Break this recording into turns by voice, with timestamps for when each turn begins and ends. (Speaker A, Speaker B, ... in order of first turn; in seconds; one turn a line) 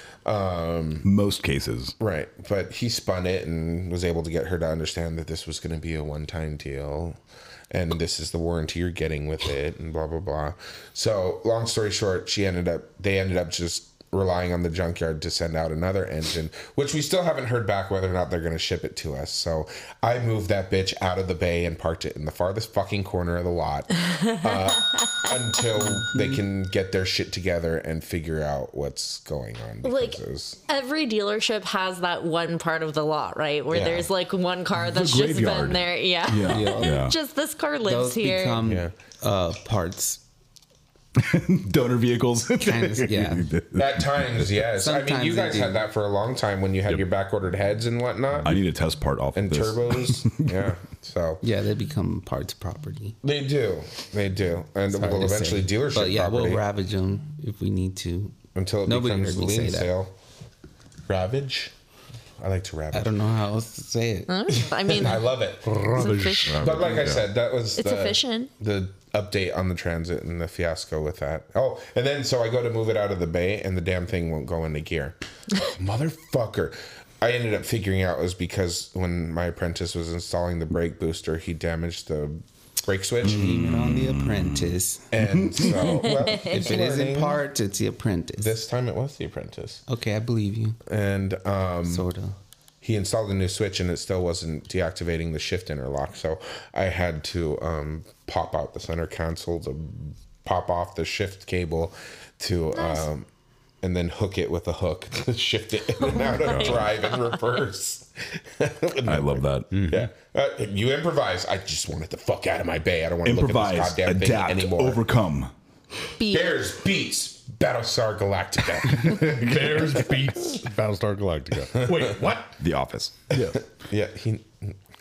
Speaker A: 0.2-1.0
Speaker B: 1.0-1.9
Speaker A: 2.0-7.2
Speaker A: 7.7-30.6
Speaker C: 24.5-25.0
Speaker D: 25.8-26.4
Speaker C: 29.8-38.6
Speaker A: 33.7-34.1
Speaker B: 34.8-37.1
Speaker D: 36.5-37.0
Speaker D: 37.8-40.2
Speaker A: 38.6-38.9
Speaker B: 41.1-44.0
Speaker D: 42.6-43.5
Speaker A: 43.7-48.6
Speaker D: 44.8-45.8
Speaker B: 48.4-50.4
Speaker A: 49.4-51.4
Speaker D: 51.4-53.2
Speaker A: 53.2-56.6
Speaker D: 54.9-59.9
Speaker A: 58.5-60.1
Speaker A: 61.1-61.7
Speaker A: 62.4-63.2
Speaker D: 62.9-64.3
Speaker C: 64.3-65.3
Speaker A: 64.9-65.8
Speaker E: 65.7-67.2
Speaker C: 65.9-66.9
Speaker A: 66.5-83.6
Speaker C: 67.8-68.5
Speaker D: 83.2-85.1
Speaker B: 83.4-84.7
Speaker A: 85.1-87.4
Speaker B: 85.4-85.7
Speaker C: 86.1-86.5
Speaker D: 86.3-88.6
Speaker A: 88.4-89.8
Speaker D: 89.9-90.8
Speaker A: 90.8-92.0
Speaker D: 91.9-92.4
Speaker A: 92.8-103.2
Speaker C: 102.8-103.0
Speaker A: 103.8-115.0
Speaker C: 106.0-107.0
Speaker B: 109.0-109.8
Speaker E: 109.7-110.1
Speaker B: 113.2-115.5
Speaker C: 116.2-116.5
Speaker A: 116.2-120.1
Speaker E: 118.9-122.5
Speaker A: 121.7-122.2
Speaker B: 122.6-123.6
Speaker A: 123.3-124.8